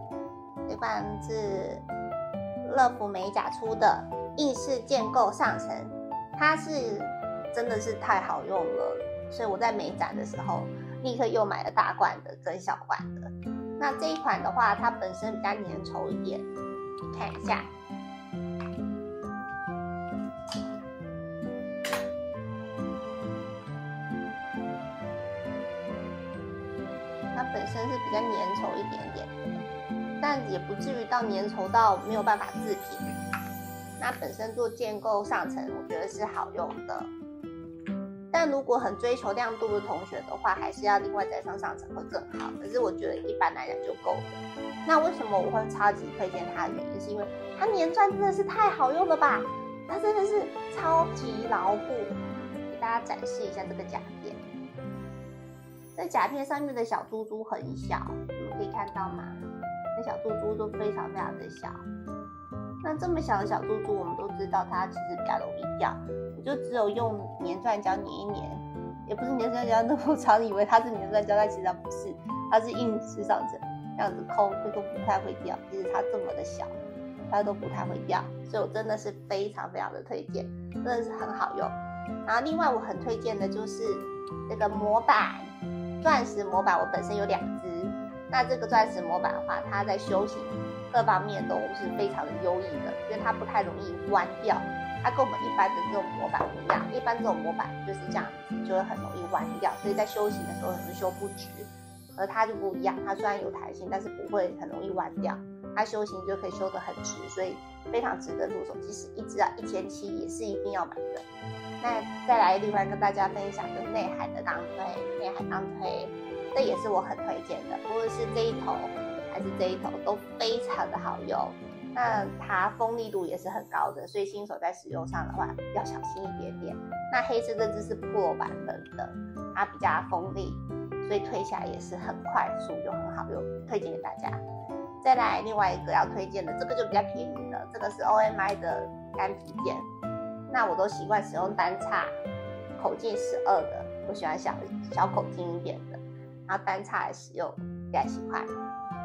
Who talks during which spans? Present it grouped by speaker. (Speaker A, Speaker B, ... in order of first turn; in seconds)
Speaker A: 0.7-1.8, 2.6-16.5, 17.1-17.7, 27.3-29.4, 30.2-33.1, 34.0-37.1, 38.3-54.4, 56.0-59.4, 60.0-61.8, 62.8-76.7, 77.3-81.7, 82.2-111.2, 111.8-134.4, 135.0-139.9, 140.5-142.1, 142.8-148.5